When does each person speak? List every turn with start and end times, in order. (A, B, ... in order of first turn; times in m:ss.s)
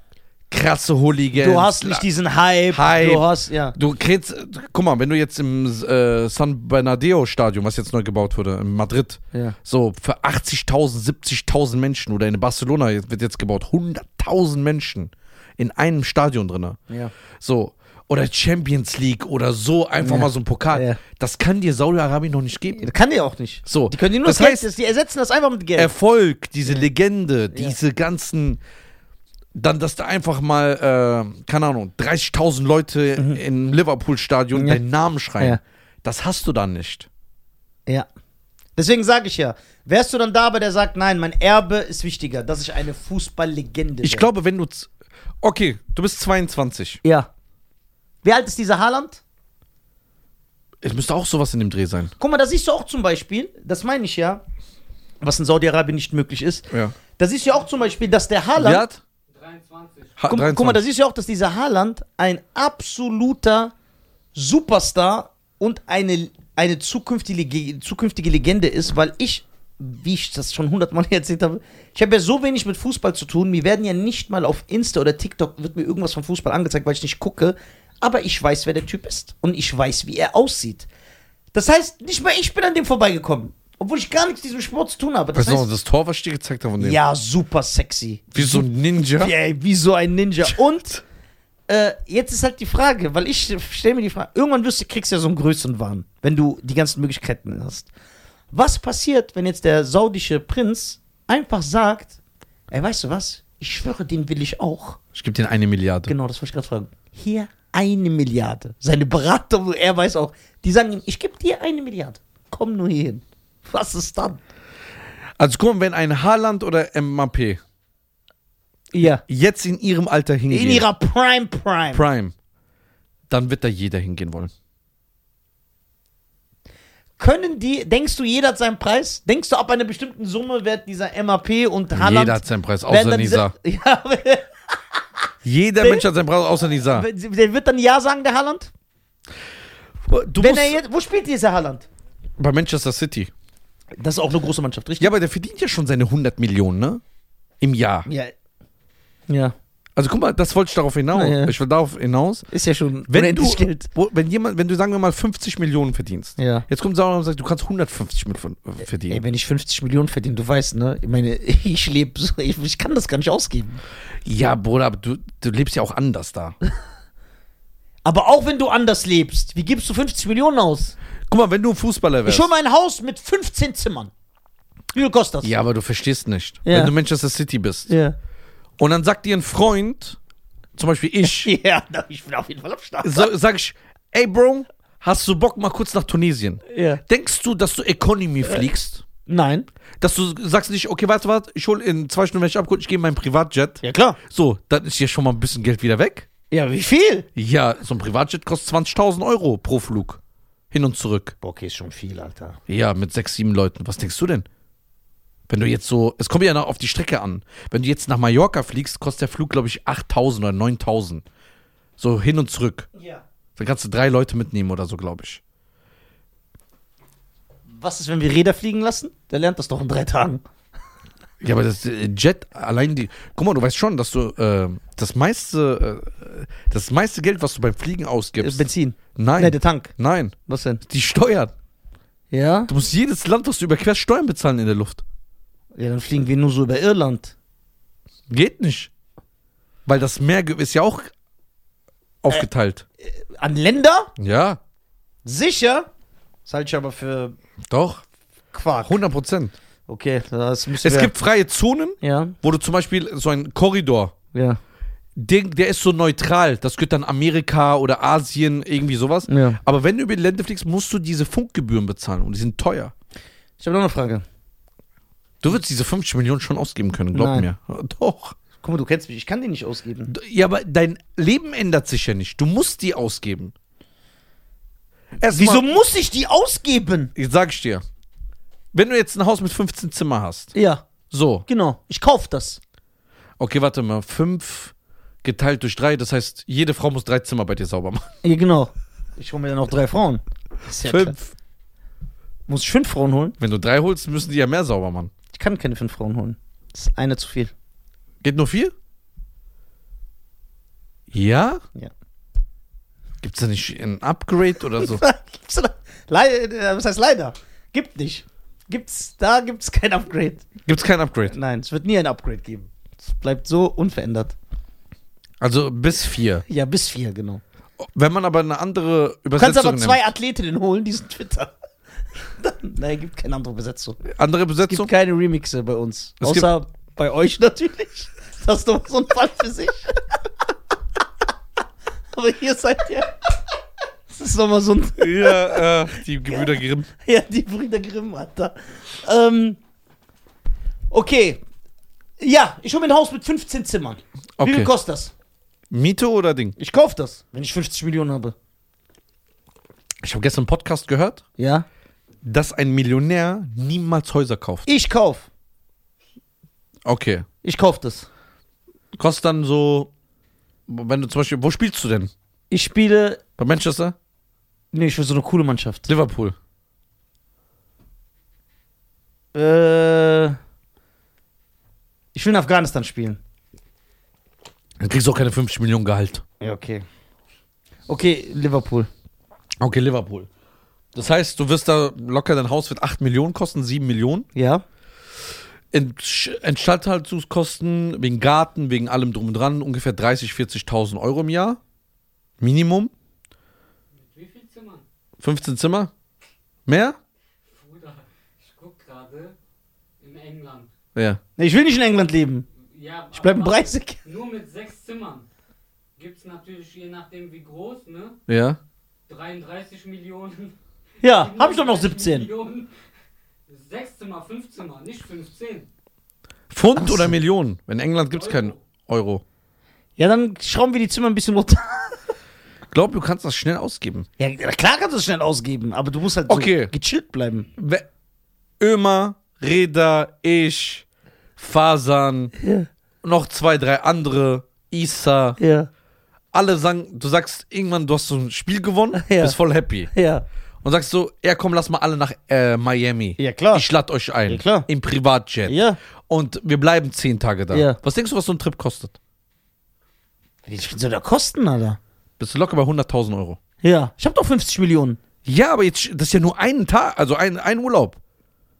0:00.5-0:02.0 A
0:01.4-0:03.8 B
0:02.7-0:16.8 A
0:17.4-0:22.9 A
0:20.0-0:21.0 B
0:22.8-0:25.9 B
0:23.6-0:24.7 A
0:25.8-0:28.6 A
0:29.5-0:37.1 A
0:34.5-0:34.8 B
0:38.8-0:44.3 B
0:44.0-0:44.9 A
0:45.4-0:47.0 A
0:47.0-0:47.3 B
0:48.2-0:49.2 B
0:50.8-0:52.1 A
0:52.2-0:54.4 B
0:55.2-0:58.8 B
0:58.6-0:59.0 A
0:59.3-1:00.2 C
1:00.2-1:00.8 A
1:00.3-1:03.7 B
1:04.3-1:20.9 B
1:21.5-1:25.7 B
1:25.3-1:27.0 A
1:26.8-1:31.0 B
1:28.3-1:29.3 A
1:31.7-1:37.9 B
1:38.5-1:42.2 B
1:42.7-1:45.0 B
1:45.1-1:46.1 A
1:46.1-1:54.4 B
1:55.4-1:57.6 A
1:58.9-1:59.2 B
1:59.2-2:00.8 A
2:00.5-2:02.0 B
2:01.9-2:02.3 A
2:03.3-2:04.5 A
2:07.2-2:15.0 B
2:11.9-2:13.5 A
2:15.4-2:17.1 A
2:15.8-2:16.0 B
2:16.9-2:18.7 B
2:20.0-2:20.8 A
2:20.4-2:21.9 B
2:22.4-2:23.3 A
2:23.9-2:25.1 B
2:25.0-2:27.0 A
2:27.6-2:28.1 A
2:28.0-2:28.3 B
2:29.3-2:29.5 B
2:30.0-2:32.5 A
2:31.1-2:31.5 B
2:32.5-2:33.9 B
2:33.1-2:39.2 A
2:36.4-2:36.6 B
2:39.1-2:43.8 B
2:44.2-2:46.6 A
2:48.0-2:51.0 B
2:51.3-2:52.5 A
2:52.2-2:54.1 B
2:54.9-2:55.5 B
2:55.4-2:57.9 A
2:56.6-2:56.9 B
2:57.9-2:58.2 B
2:58.8-3:00.2 A
3:00.8-3:01.5 A
3:01.2-3:03.3 B
3:03.0-3:09.0 A
3:06.7-3:07.0 B
3:09.3-3:09.7 B
3:10.0-3:16.3 A
3:13.8-3:14.2 B
3:16.5-3:17.3 B
3:17.4-3:20.2 A
3:20.7-3:21.3 A
3:21.4-3:22.6 B
3:22.7-3:24.4 A
3:25.5-3:31.2 A
3:32.0-3:32.9 A
3:33.0-3:33.2 B
3:33.6-3:35.4 A
3:37.7-3:40.4 B
3:41.4-3:51.5 A
3:48.4-3:49.9 B
3:50.5-3:50.8 B
3:52.3-3:52.7 B
3:52.7-3:55.0 A
3:55.7-3:57.3 B
3:58.3-3:58.9 A
3:59.8-4:01.1 A
4:02.2-4:02.8 A
4:03.0-4:04.1 B
4:04.2-4:04.6 A
4:05.2-4:05.9 B
4:06.4-4:07.4 B
4:07.7-4:08.0 A
4:08.5-4:09.0 B
4:08.8-4:09.5 A
4:09.9-4:11.1 B
4:10.8-4:14.1 A
4:12.0-4:12.4 B
4:14.3-4:14.6 B
4:15.2-4:22.9 A
4:19.3-4:19.6 B
4:23.6-4:24.2 B
4:25.4-4:28.4 A
4:27.1-4:27.5 B
4:28.6-4:30.1 B
4:30.1-4:33.5 A
4:35.2-4:35.6 A
4:35.3-4:37.1 B
4:37.1-4:37.8 A
4:38.7-4:40.5 A
4:40.5-4:40.8 B
4:41.1-4:41.4 A
4:41.5-4:42.6 B
4:43.4-4:44.7 A
4:45.2-4:48.1 A
4:48.2-4:51.1 B
4:50.8-4:51.3 A
4:52.5-4:53.4 B
4:53.4-4:55.1 A
4:55.3-4:57.5 B
4:58.2-4:58.7 A
5:01.1-5:01.6 A
5:03.2-5:05.0 A
5:04.7-5:10.5 B
5:10.6-5:11.3 A
5:11.3-5:14.3 B
5:15.4-5:16.4 A
5:16.5-5:17.4 B
5:17.8-5:20.0 A
5:19.4-5:21.5 B
5:22.2-5:24.0 B
5:24.0-5:24.9 A
5:24.6-5:30.0 B
5:26.2-5:26.5 A
5:32.1-5:33.3 B
5:34.1-5:35.7 B
5:35.0-5:36.9 A
5:36.3-5:39.6 B
5:40.9-5:41.4 B
5:42.2-5:45.1 B
5:44.4-5:44.7 A
5:45.7-5:46.6 A
5:46.6-5:48.3 B
5:50.0-5:51.2 A
5:51.4-5:51.6 B
5:52.2-5:54.7 A
5:54.6-5:55.3 B
5:56.8-5:57.3 A
5:57.4-5:58.1 B
5:58.9-5:59.9 A
6:00.7-6:02.1 A
6:02.5-6:03.2 B
6:03.4-6:03.9 A
6:04.7-6:05.9 B
6:05.9-6:06.3 A
6:09.3-6:10.4 B
6:12.1-6:13.2 B
6:14.8-6:16.2 A
6:16.4-6:16.8 B
6:17.9-6:18.9 B
6:19.6-6:20.3 A
6:20.9-6:24.3 A
6:24.3-6:24.6 B
6:25.7-6:31.6 A
6:32.4-6:32.9 A
6:33.9-6:34.8 C
6:35.2-6:35.9 A
6:36.6-6:37.0 A
6:37.5-6:39.3 C
6:40.0-6:40.7 C
6:40.9-6:41.2 A
6:41.4-6:42.4 B
6:42.6-6:45.2 C
6:43.1-6:44.0 B
6:46.0-6:48.2 C
6:48.3-6:48.6 A
6:49.1-6:52.7 C
6:51.0-6:52.3 B
6:53.5-6:55.7 C
6:56.5-6:59.2 A
6:56.8-6:57.1 B
6:58.1-6:58.6 C
7:00.0-7:02.0 B
7:02.7-7:04.1 A
7:04.2-7:07.5 B
7:06.3-7:06.7 A
7:07.6-7:07.8 A
7:08.6-7:10.8 A
7:11.4-7:12.3 A
7:12.4-7:12.7 B
7:13.0-7:15.4 A
7:15.4-7:15.7 B
7:16.3-7:19.9 A
7:18.9-7:19.4 B
7:19.9-7:20.2 B
7:20.6-7:25.6 A
7:23.2-7:23.7 B
7:24.3-7:24.7 B
7:25.4-7:25.8 B
7:26.1-7:29.0 A
7:27.5-7:27.8 B
7:30.4-7:31.8 B
7:32.2-7:33.4 A
7:33.6-7:35.0 B
7:35.2-7:38.0 A